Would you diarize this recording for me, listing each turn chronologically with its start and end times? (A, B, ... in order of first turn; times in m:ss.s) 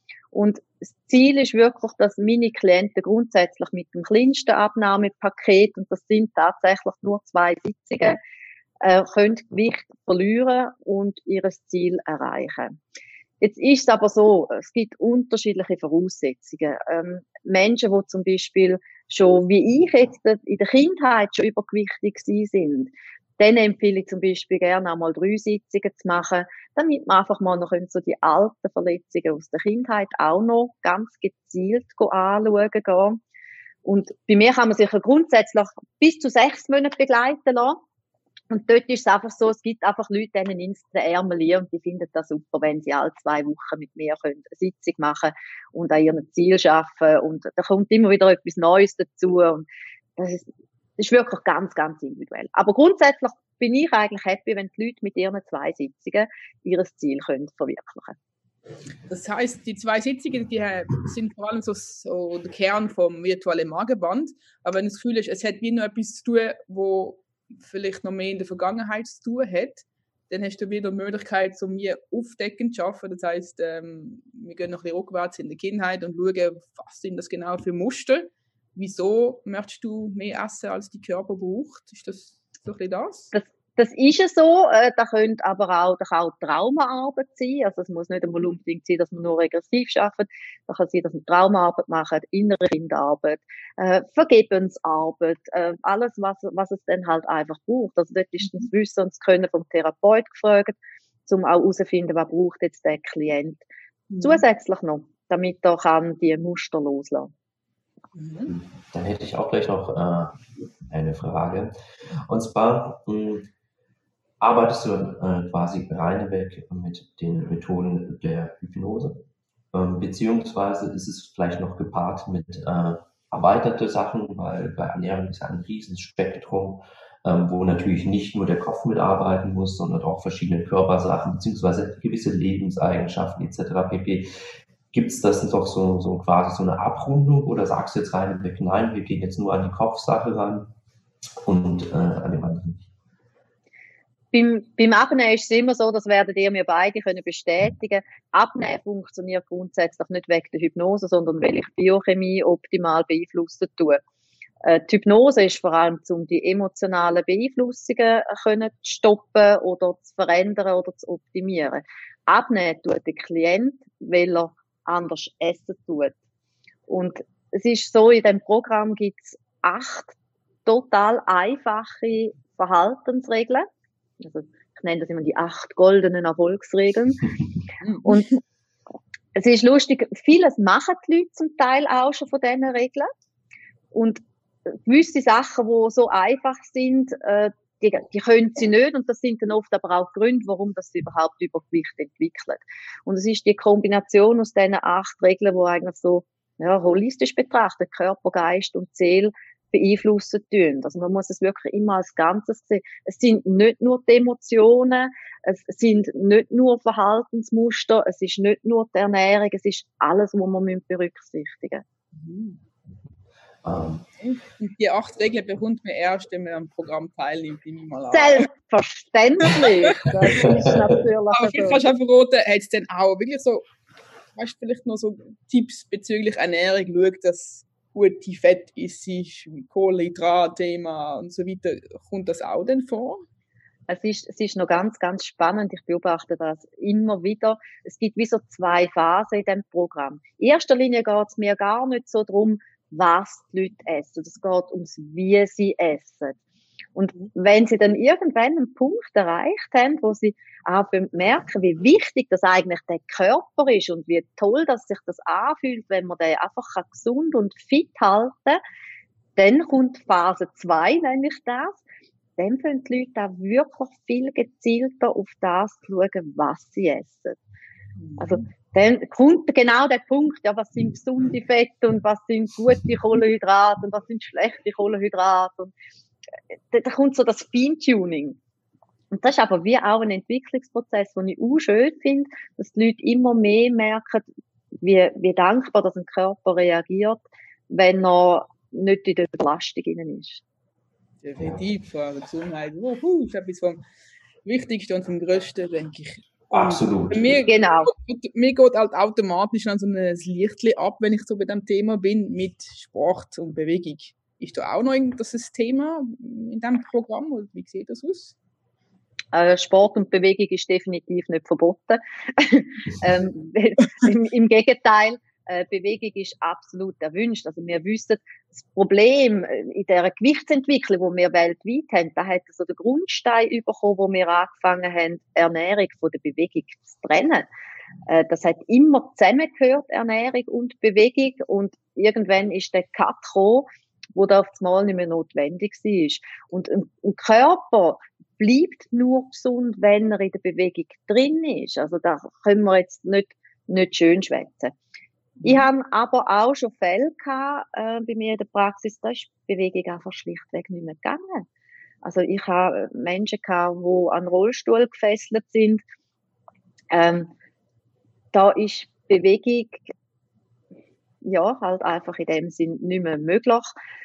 0:00.3-0:08.2 A
0:08.8-0:12.8 A
0:13.4-0:33.2 A
0:33.8-0:37.8 A
0:38.5-0:50.4 A
0:51.0-0:58.2 A
0:59.1-1:23.3 B
1:23.3-1:43.6 A
1:44.1-1:44.4 B
1:44.2-1:47.3 A
1:48.1-1:48.5 B
1:48.5-1:51.7 C
1:52.3-1:53.5 C
1:54.4-1:59.2 C
1:59.7-2:14.3 C
2:14.9-2:20.7 C
2:21.4-2:22.9 C
2:24.3-2:34.0 A
2:34.6-2:46.1 A
2:46.9-2:50.1 A
2:50.6-2:53.6 A
2:54.2-2:57.3 A
2:57.8-2:58.2 B
2:58.0-2:58.4 A
2:59.3-3:03.1 A
3:03.9-3:04.2 A
3:04.8-3:31.8 A
3:32.1-3:32.6 B
3:33.6-3:34.0 C
3:34.2-3:38.5 B
3:38.1-3:41.8 A
3:39.5-3:40.5 B
3:40.4-3:40.7 C
3:41.3-3:43.6 B
3:44.4-3:53.2 B
3:53.9-4:06.4 A
4:07.0-4:18.6 A
4:19.4-4:21.8 A
4:22.4-4:27.4 A
4:28.0-4:28.4 B
4:28.2-4:35.7 A
4:36.7-4:38.4 A
4:39.1-4:44.3 A
4:44.8-4:50.4 A
4:51.2-4:53.8 B
4:54.4-5:08.3 B
4:56.5-4:57.4 C
4:57.4-4:57.9 A
5:09.3-5:27.5 A
5:28.1-5:44.7 A
5:45.4-5:51.4 A
5:52.0-5:55.8 A
5:56.9-5:57.3 A
5:58.3-5:59.9 A
6:01.2-6:03.7 A